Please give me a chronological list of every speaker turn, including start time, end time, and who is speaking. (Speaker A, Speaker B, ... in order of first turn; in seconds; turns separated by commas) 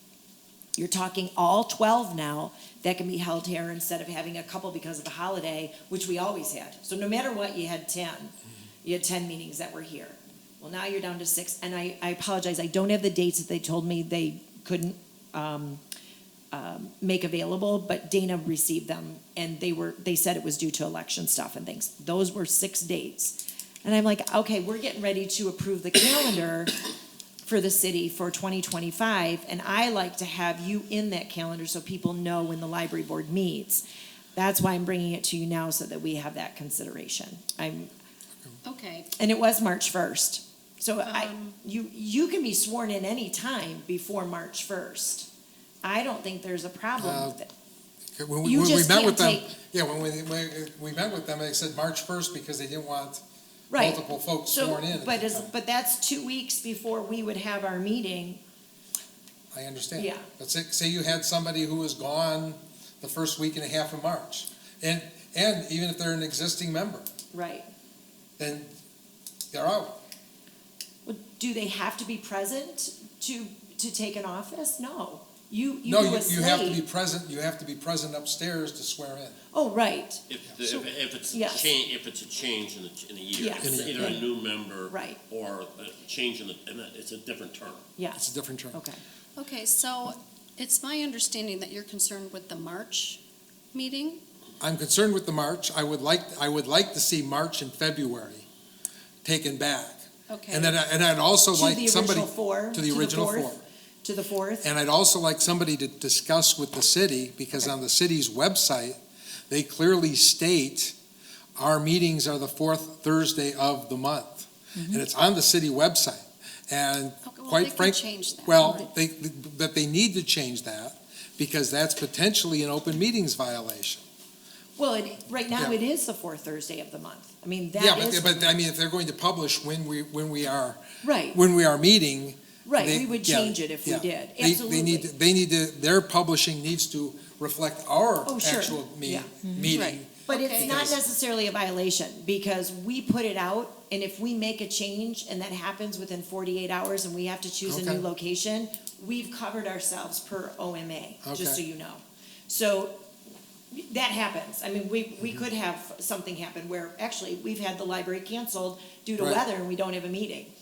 Speaker A: 0.8-15.8, Speaker A: 16.5-26.8, Speaker A: 27.4-33.8, Speaker A: 34.3-37.9, Speaker B: 38.6-39.1, Speaker A: 39.2-45.3, Speaker B: 41.0-41.6, Speaker A: 45.8-47.5, Speaker C: 47.0-47.3, Speaker C: 48.2-53.2, Speaker A: 48.4-49.5, Speaker A: 53.7-58.4, Speaker C: 53.8-55.5, Speaker C: 59.5-67.1, Speaker A: 60.0-60.2, Speaker A: 67.3-67.7, Speaker C: 68.4-68.7, Speaker C: 69.5-70.0, Speaker A: 71.0-76.8, Speaker C: 75.9-79.4, Speaker A: 79.5-81.7, Speaker D: 80.3-87.8, Speaker A: 83.3-84.2, Speaker C: 83.6-84.1, Speaker A: 84.9-85.2, Speaker A: 88.0-89.0, Speaker C: 88.1-88.8, Speaker B: 89.4-93.2, Speaker B: 93.7-94.2, Speaker C: 94.6-98.5, Speaker C: 99.2-103.6, Speaker B: 100.3-100.7, Speaker A: 101.5-104.7, Speaker C: 104.6-109.0, Speaker C: 109.5-110.9, Speaker C: 111.6-124.0, Speaker A: 114.7-115.0, Speaker B: 117.2-118.9, Speaker A: 124.8-128.5, Speaker C: 125.5-125.8, Speaker C: 127.8-141.0, Speaker A: 131.0-131.4, Speaker A: 132.6-135.1, Speaker A: 138.2-153.0, Speaker B: 139.7-140.9, Speaker C: 147.7-148.0, Speaker C: 151.2-151.6, Speaker A: 153.7-160.5